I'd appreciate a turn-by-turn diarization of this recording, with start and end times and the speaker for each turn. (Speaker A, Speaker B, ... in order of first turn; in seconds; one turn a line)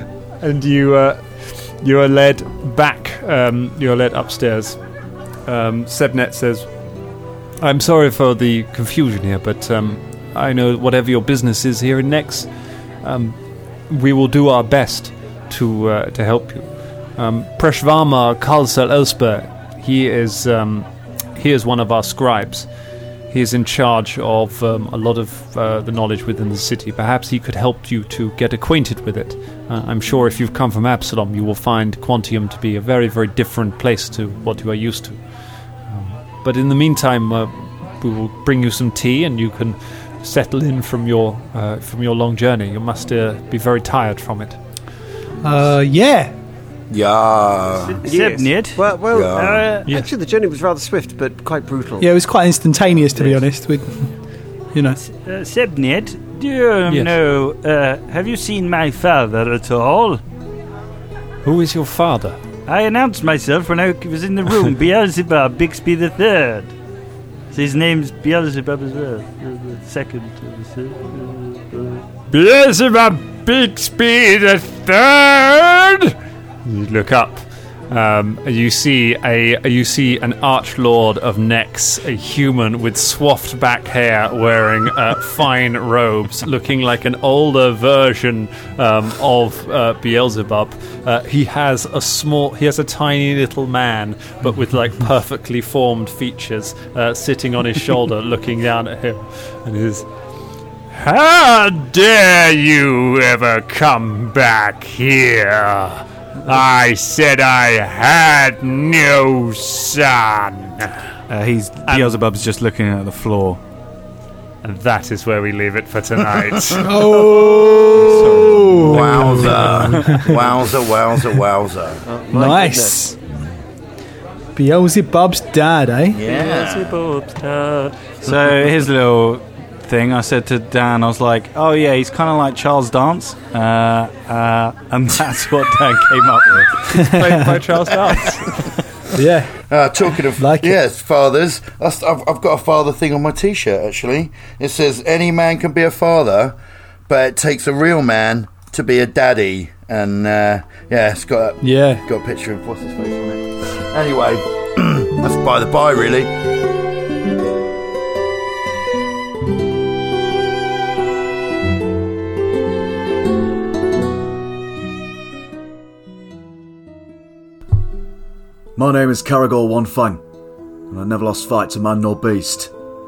Speaker A: 0.4-4.8
Speaker A: 5.5-6.7
Speaker A: 7.6-12.5
Speaker A: 13.0-13.4
Speaker A: 13.9-22.7
Speaker A: 23.3-35.2
Speaker A: 35.9-44.6
Speaker B: 45.4-46.3
Speaker C: 46.9-48.0
Speaker D: 47.8-49.8
Speaker E: 48.0-52.1
Speaker C: 49.1-49.7
Speaker B: 52.0-54.1
Speaker B: 54.7-55.0
Speaker D: 55.0-60.2
Speaker A: 56.9-57.1
Speaker A: 61.4-62.4
Speaker D: 62.6-66.7
Speaker D: 67.5-72.0
Speaker A: 72.3-100.1
Speaker A: 100.9-111.0
Speaker F: 111.3-113.6
Speaker A: 111.9-112.1
Speaker A: 114.6-116.9
Speaker B: 116.8-120.4
Speaker A: 118.0-120.2
Speaker C: 118.8-122.0
Speaker E: 122.0-123.0
Speaker B: 122.3-123.2
Speaker B: 124.5-126.2
Speaker C: 126.1-127.0
Speaker D: 126.2-127.9
Speaker F: 128.2-136.8
Speaker A: 136.8-138.7
Speaker B: 139.1-139.6
Speaker C: 139.7-146.6
Speaker B: 140.4-140.8
Speaker C: 147.1-156.3
Speaker B: 151.6-152.0
Speaker G: 168.8-170.2
Speaker G: 170.9-172.7